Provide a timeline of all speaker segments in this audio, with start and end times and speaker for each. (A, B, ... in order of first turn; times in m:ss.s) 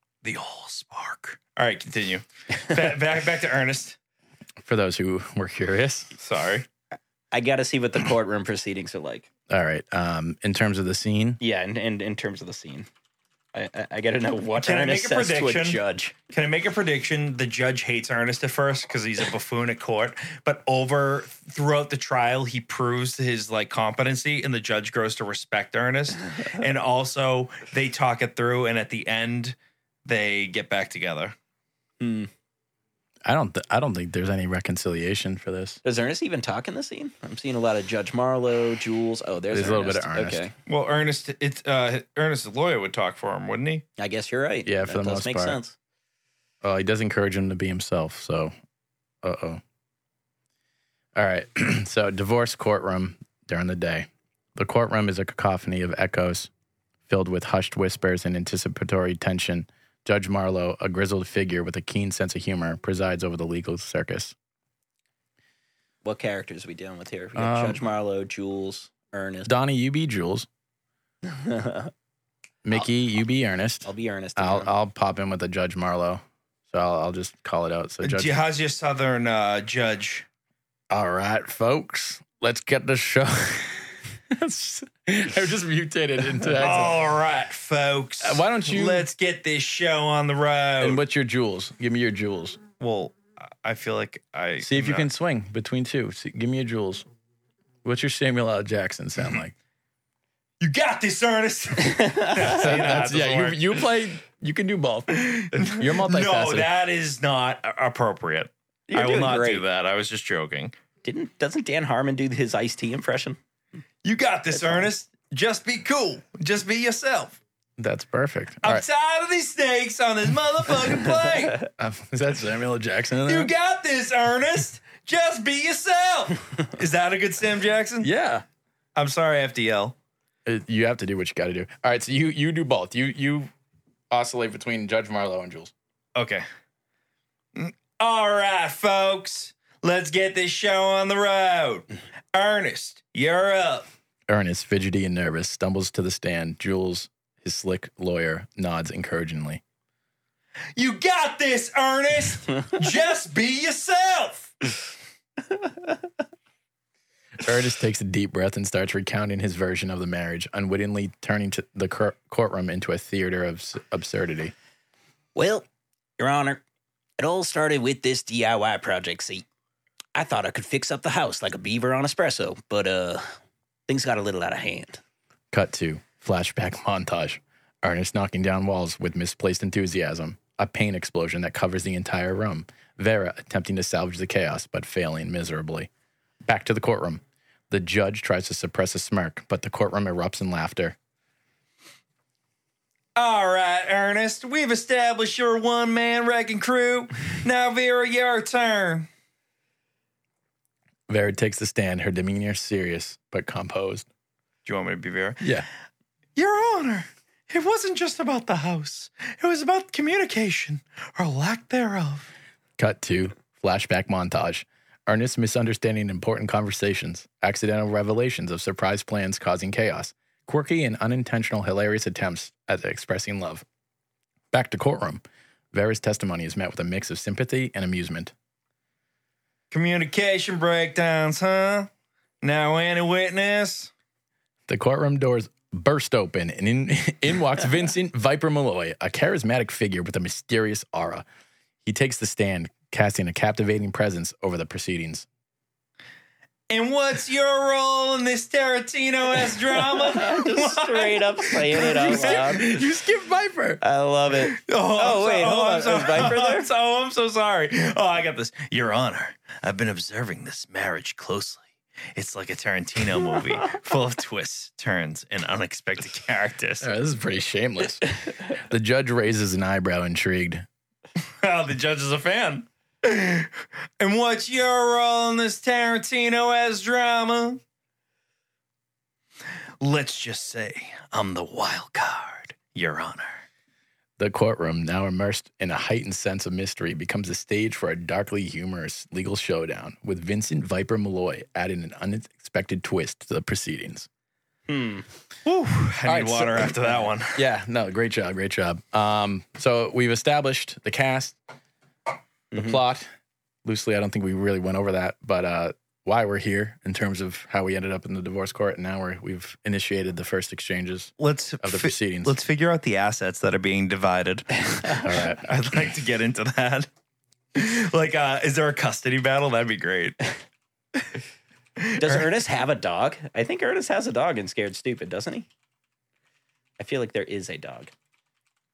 0:00.2-0:04.0 A
0:04.6-0:06.1 B
0:06.2-0:06.6 A
0:07.3-0:09.3 C
0:09.5-0:11.4 B
0:11.4-0:12.9 C
0:13.5-0:16.1 C
0:14.6-0:31.3 A
0:32.0-0:32.3 C
0:33.2-0:35.8 B
0:35.8-0:40.5 C
0:39.5-0:40.5 B
0:40.7-0:43.8 A
0:44.0-0:45.8 C
0:44.6-0:45.6 B
0:46.6-0:48.5 B
0:49.2-0:49.6 B
0:51.1-0:56.5 B
0:57.1-1:04.3 B
1:06.0-1:09.5 C
1:07.4-1:07.8 B
1:09.4-1:10.5 B
1:11.2-1:11.9 C
1:12.6-1:18.4 B
1:13.8-1:14.7 C
1:18.0-1:20.2 A
1:20.9-1:27.0 B
1:26.6-1:31.0 A
1:28.2-1:29.1 B
1:30.8-1:32.6 B
1:32.8-1:35.1 A
1:34.6-1:37.0 B
1:37.8-1:39.5 B
1:40.6-1:43.8 A
1:42.0-1:42.4 C
1:42.4-1:46.7 B
1:45.1-1:50.7 A
1:48.9-1:49.6 C
1:51.0-1:53.4 C
1:54.0-1:57.4 A
1:54.5-1:54.9 C
1:57.8-1:58.8 B
1:58.6-2:01.7 A
2:01.8-2:03.5 B
2:03.2-2:08.1 A
2:08.0-2:08.4 B
2:09.0-2:10.0 A
2:10.4-2:13.5 B
2:14.1-2:15.7 B
2:16.1-2:16.4 A
2:17.5-2:23.8 A
2:24.3-2:29.6 B
2:30.8-2:34.5 A
2:37.4-2:44.5 B
2:45.3-2:45.6 C
2:46.2-2:46.6 C
2:47.2-2:49.4 C
2:50.1-2:53.3 C
2:53.9-2:55.0 C
2:55.5-3:05.9 B
3:06.4-3:11.0 B
3:13.2-3:19.1 A
3:21.1-3:24.1 B
3:24.6-3:25.5 A
3:25.4-3:25.7 B
3:26.4-3:32.3 A
3:32.8-3:43.6 B
3:44.5-3:48.3 B
3:49.7-3:51.9 A
3:52.4-3:53.9 A
3:54.7-4:01.2 B
4:01.8-4:05.3 B
4:06.7-4:12.8 A
4:09.8-4:12.8 C
4:11.7-4:13.8 B
4:13.8-4:16.7 C
4:14.4-4:21.6 A
4:22.2-4:26.9 A
4:26.8-4:30.6 B
4:31.2-4:37.6 A
4:39.8-4:43.4 A
4:44.2-4:54.1 B
4:54.7-4:55.0 C
4:55.4-4:57.4 A
4:56.0-4:56.8 B
4:57.3-5:01.4 B
5:02.5-5:03.1 B
5:03.6-5:12.4 B
5:11.2-5:16.9 A
5:15.0-5:15.4 B
5:17.5-5:20.2 A
5:21.8-5:22.3 A
5:22.0-5:25.5 C
5:26.8-5:27.9 C